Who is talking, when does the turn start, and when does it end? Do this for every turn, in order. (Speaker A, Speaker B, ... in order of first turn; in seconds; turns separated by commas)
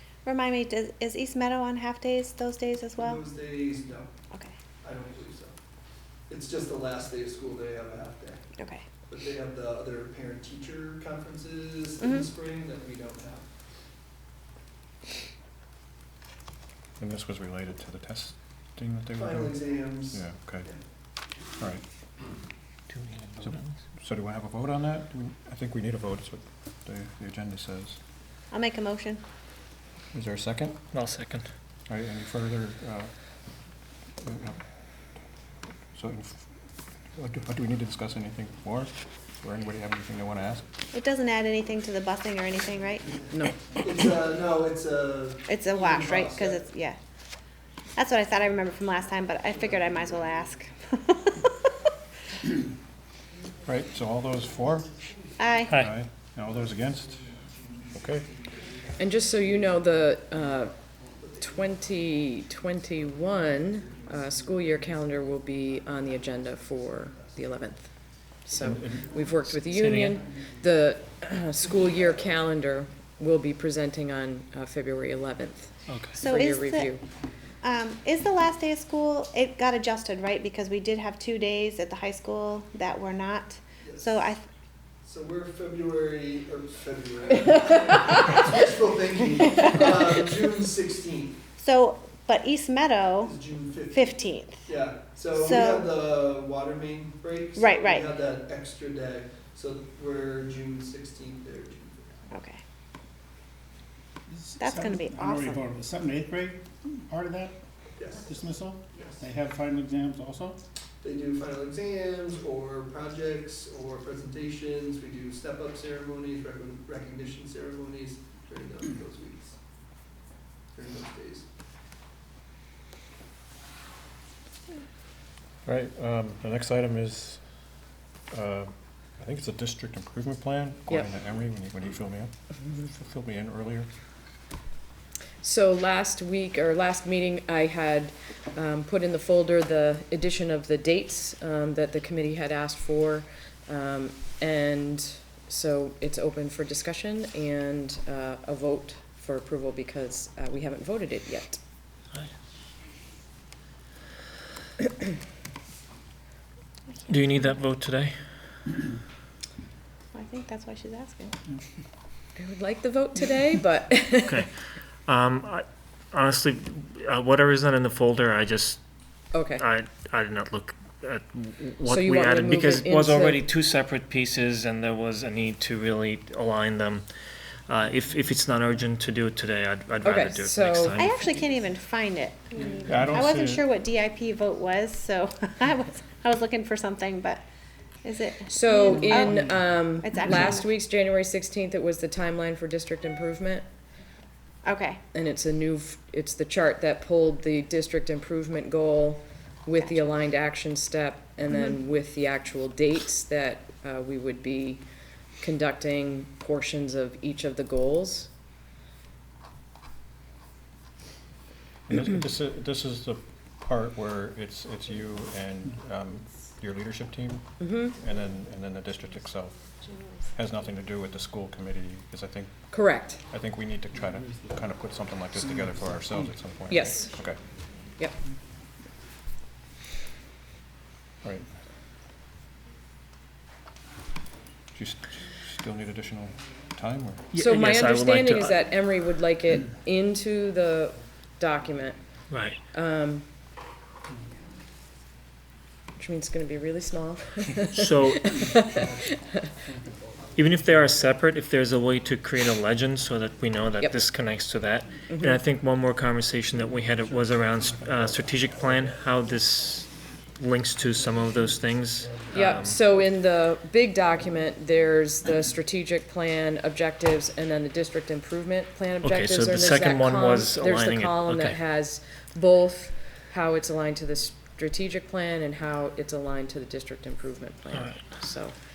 Speaker A: 0.2-3.2, Speaker B: 3.0-4.1, Speaker B: 4.8-5.6, Speaker B: 6.3-8.4, Speaker A: 8.6-8.8, Speaker B: 9.1-13.4, Speaker C: 17.0-20.7, Speaker B: 19.2-20.8, Speaker D: 22.9-23.7, Speaker C: 23.4-28.0, Speaker A: 28.5-29.2, Speaker C: 30.1-30.8, Speaker D: 30.9-31.5, Speaker C: 31.9-33.1, Speaker C: 34.2-34.6, Speaker C: 36.0-36.5, Speaker C: 37.1-40.7, Speaker A: 40.9-43.1, Speaker B: 43.0-46.6, Speaker A: 45.5-47.0, Speaker A: 48.0-51.5, Speaker B: 49.5-50.5, Speaker C: 53.6-55.0, Speaker A: 55.4-55.8, Speaker D: 55.6-55.9, Speaker C: 55.8-57.3, Speaker B: 56.5-67.8, Speaker C: 58.0-58.3, Speaker E: 59.0-60.8, Speaker E: 61.4-67.9, Speaker E: 68.5-77.0, Speaker C: 68.5-69.2, Speaker D: 69.7-70.2, Speaker B: 71.7-72.2, Speaker D: 75.9-76.2, Speaker A: 76.1-76.9, Speaker A: 77.6-84.4, Speaker B: 83.8-84.1, Speaker B: 85.0-91.4, Speaker A: 91.6-93.3, Speaker B: 93.2-94.1, Speaker A: 93.9-94.6, Speaker B: 94.7-102.2, Speaker A: 95.3-95.9, Speaker A: 97.6-98.1, Speaker A: 102.3-102.6, Speaker F: 104.3-107.6, Speaker A: 104.6-105.6, Speaker B: 108.0-108.3, Speaker F: 108.2-110.6, Speaker B: 108.9-109.2, Speaker B: 111.0-119.6, Speaker B: 120.8-121.5, Speaker C: 125.7-127.4, Speaker C: 128.3-133.9, Speaker E: 135.4-151.6, Speaker A: 157.1-157.4, Speaker D: 157.1-158.2, Speaker A: 160.1-161.3, Speaker E: 162.4-164.5, Speaker D: 165.1-168.8, Speaker E: 169.3-169.6, Speaker D: 169.6-177.1, Speaker E: 171.9-173.4, Speaker D: 177.7-181.2, Speaker E: 180.0-181.1, Speaker A: 180.9-187.4, Speaker C: 182.9-183.6, Speaker A: 188.0-189.5, Speaker E: 188.5-193.7, Speaker F: 189.2-189.6, Speaker A: 190.0-190.7, Speaker A: 194.7-195.0, Speaker E: 195.1-204.8, Speaker A: 199.8-200.1, Speaker A: 201.5-201.8, Speaker E: 205.4-208.3, Speaker C: 211.9-219.8, Speaker E: 217.6-218.0, Speaker C: 220.3-222.6, Speaker E: 222.7-223.2, Speaker C: 223.2-227.4, Speaker F: 224.2-224.5, Speaker F: 225.4-226.3, Speaker E: 226.7-227.1, Speaker C: 234.7-237.4, Speaker D: 237.3-238.6, Speaker E: 237.4-242.1, Speaker D: 242.3-242.6, Speaker E: 242.7-243.3, Speaker E: 246.0-249.5, Speaker D: 247.7-248.3, Speaker F: 249.7-250.0, Speaker D: 250.4-262.8, Speaker E: 253.8-254.0, Speaker E: 255.1-255.4, Speaker E: 262.3-278.6, Speaker D: 269.0-271.6, Speaker D: 277.7-278.2